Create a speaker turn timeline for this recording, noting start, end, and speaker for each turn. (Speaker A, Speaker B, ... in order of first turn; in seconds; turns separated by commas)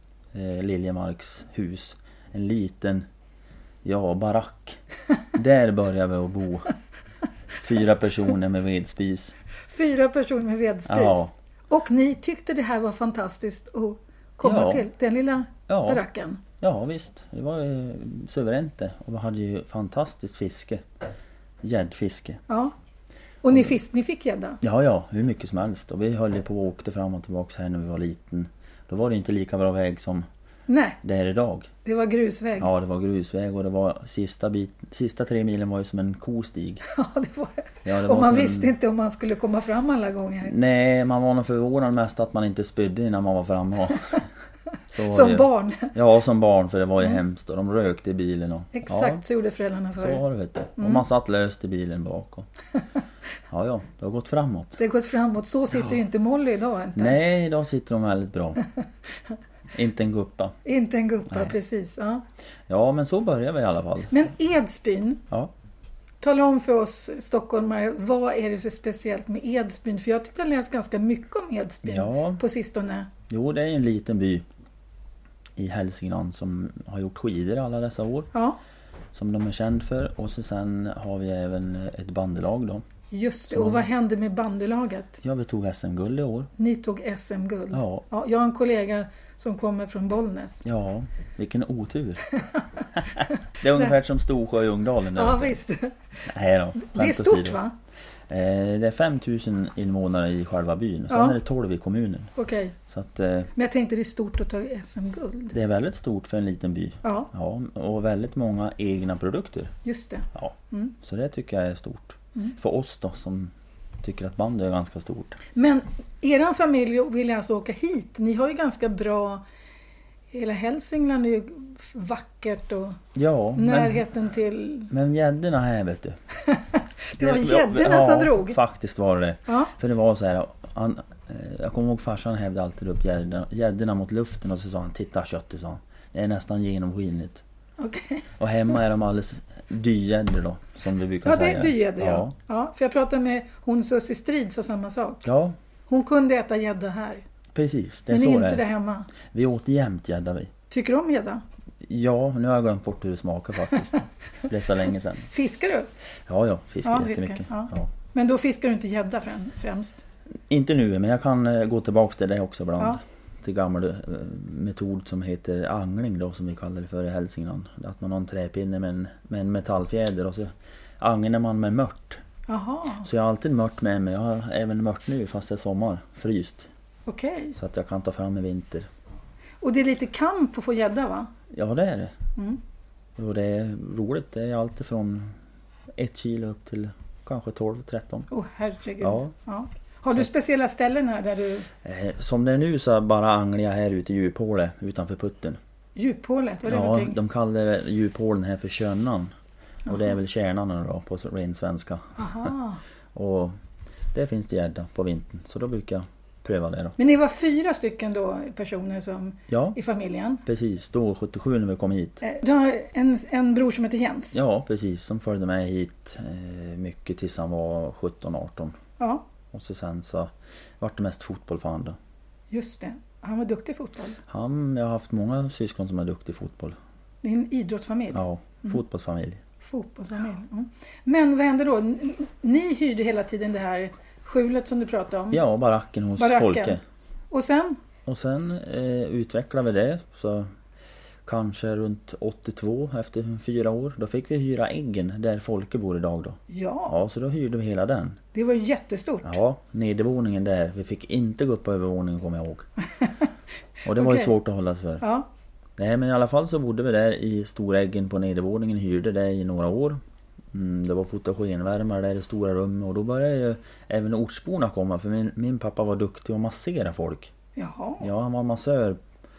Speaker A: 0.3-3.1, Speaker A: 3.8-4.8, Speaker A: 5.3-6.7, Speaker A: 7.6-9.3, Speaker B: 9.7-16.4, Speaker A: 10.8-11.3, Speaker A: 14.4-14.9, Speaker A: 15.7-16.0, Speaker A: 16.6-20.8, Speaker A: 21.6-22.4, Speaker B: 22.5-22.7, Speaker B: 23.4-24.6, Speaker A: 24.6-30.2, Speaker B: 30.7-31.0, Speaker A: 31.0-31.7, Speaker B: 31.8-32.7, Speaker A: 32.6-36.8, Speaker B: 36.9-40.5, Speaker A: 37.8-38.7, Speaker A: 40.4-44.2, Speaker A: 44.9-49.2, Speaker B: 45.0-45.9, Speaker B: 48.7-50.2, Speaker A: 50.0-52.5, Speaker B: 50.8-51.0, Speaker A: 53.5-54.8, Speaker B: 54.8-57.2, Speaker A: 57.0-58.6, Speaker A: 59.7-60.6, Speaker B: 60.6-62.2, Speaker A: 61.3-61.5, Speaker A: 62.7-64.1, Speaker B: 64.1-65.2, Speaker B: 66.2-73.1, Speaker A: 71.8-72.4, Speaker A: 73.3-74.4, Speaker A: 75.5-78.3, Speaker B: 78.3-78.6, Speaker A: 79.1-82.8, Speaker B: 83.1-85.2, Speaker A: 83.5-83.9, Speaker A: 85.2-86.5, Speaker B: 86.6-90.6, Speaker A: 87.7-88.0, Speaker A: 90.6-92.2, Speaker B: 92.3-93.9, Speaker A: 93.0-95.6, Speaker B: 95.1-96.0, Speaker A: 96.2-97.6, Speaker B: 96.8-97.7, Speaker A: 98.3-102.3, Speaker B: 101.1-101.4, Speaker B: 102.3-102.7, Speaker A: 102.9-103.5, Speaker B: 103.5-105.5, Speaker A: 105.5-109.7, Speaker B: 107.0-107.3, Speaker B: 109.8-110.9, Speaker A: 110.3-115.4, Speaker B: 115.5-119.4, Speaker B: 120.3-123.0, Speaker A: 123.1-124.0, Speaker B: 123.5-124.9, Speaker A: 124.9-126.2, Speaker B: 126.4-128.6, Speaker A: 127.2-137.4, Speaker B: 129.5-129.7, Speaker B: 137.8-138.3, Speaker A: 138.4-142.3, Speaker B: 141.2-145.2, Speaker A: 145.2-145.6, Speaker B: 145.9-147.2, Speaker A: 147.5-148.6, Speaker B: 148.1-149.1, Speaker A: 149.2-150.5, Speaker B: 150.7-151.4, Speaker A: 151.8-155.3, Speaker B: 155.3-155.9, Speaker A: 156.3-157.9, Speaker B: 156.8-160.0, Speaker A: 160.5-172.2, Speaker B: 172.5-173.1, Speaker A: 173.0-176.7, Speaker B: 177.1-177.6, Speaker A: 177.6-178.9, Speaker B: 179.6-181.3, Speaker A: 181.5-182.1, Speaker A: 183.2-185.3, Speaker A: 185.9-188.3, Speaker B: 188.3-191.7, Speaker A: 189.0-189.3, Speaker A: 191.8-195.6, Speaker B: 195.9-197.2, Speaker A: 196.7-199.3, Speaker A: 199.8-202.5, Speaker B: 202.2-202.8, Speaker A: 203.1-203.6, Speaker A: 204.1-206.9, Speaker B: 207.0-210.4, Speaker A: 209.5-209.8, Speaker A: 210.4-212.2, Speaker B: 212.2-214.4, Speaker A: 214.3-218.8, Speaker B: 219.0-219.2, Speaker A: 219.5-222.0, Speaker B: 222.5-224.2, Speaker A: 224.3-226.8, Speaker B: 227.2-228.8, Speaker A: 228.1-229.4, Speaker B: 229.6-235.4, Speaker A: 235.3-236.8, Speaker B: 236.2-236.8, Speaker B: 237.3-237.8, Speaker A: 238.1-240.5, Speaker A: 241.2-248.2, Speaker B: 246.5-246.9, Speaker B: 248.3-249.4, Speaker A: 249.2-252.7, Speaker B: 253.0-253.2, Speaker A: 253.8-255.0, Speaker B: 253.9-254.3, Speaker B: 255.0-255.3, Speaker A: 255.8-260.0, Speaker A: 260.5-267.3, Speaker B: 267.6-268.1, Speaker A: 268.0-269.0